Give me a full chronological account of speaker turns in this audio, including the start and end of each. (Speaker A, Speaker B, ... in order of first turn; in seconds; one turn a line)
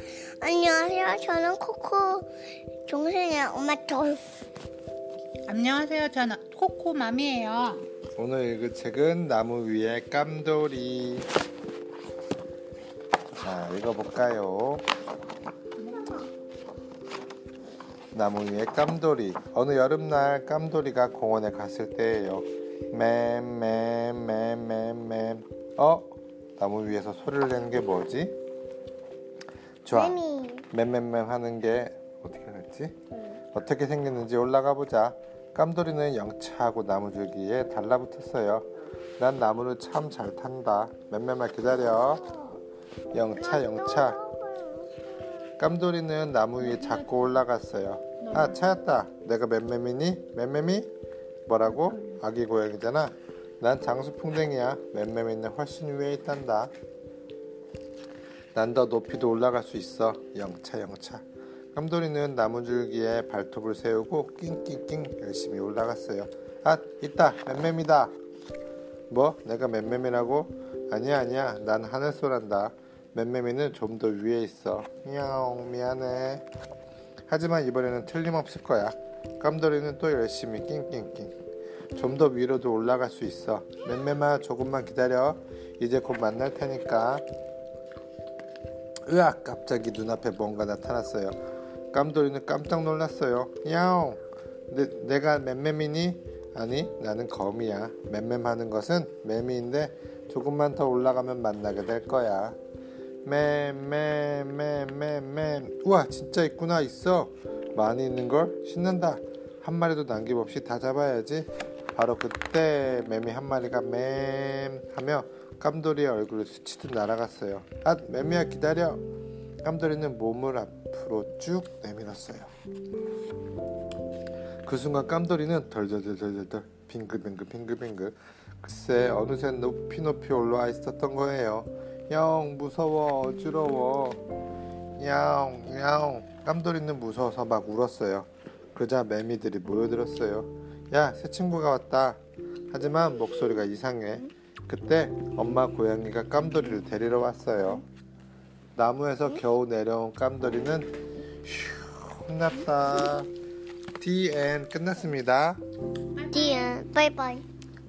Speaker A: 0.4-2.2
Speaker A: 2.9-4.2
Speaker B: 5.5-7.8
Speaker C: 8.2-11.3
Speaker C: 13.4-14.9
Speaker C: 18.1-28.4
Speaker C: 29.8-30.2
Speaker A: 29.9-30.6
Speaker C: 30.7-33.0
Speaker C: 33.5-42.3
Speaker A: 42.2-42.6
Speaker C: 43.1-44.2
Speaker A: 43.3-45.3
Speaker C: 45.6-50.9
Speaker C: 51.5-56.7
Speaker C: 58.5-68.1
Speaker C: 69.1-76.5
Speaker C: 77.3-81.3
Speaker C: 81.9-87.2
Speaker C: 89.1-91.4
Speaker C: 91.9-102.6
Speaker C: 103.2-119.0
Speaker C: 119.6-122.5
Speaker C: 124.6-134.2
Speaker C: 135.0-142.2
Speaker C: 142.7-147.8
Speaker C: 148.8-150.9
Speaker C: 151.4-153.3
Speaker C: 154.0-155.6
Speaker B: 156.2-156.7
Speaker A: 156.3-157.4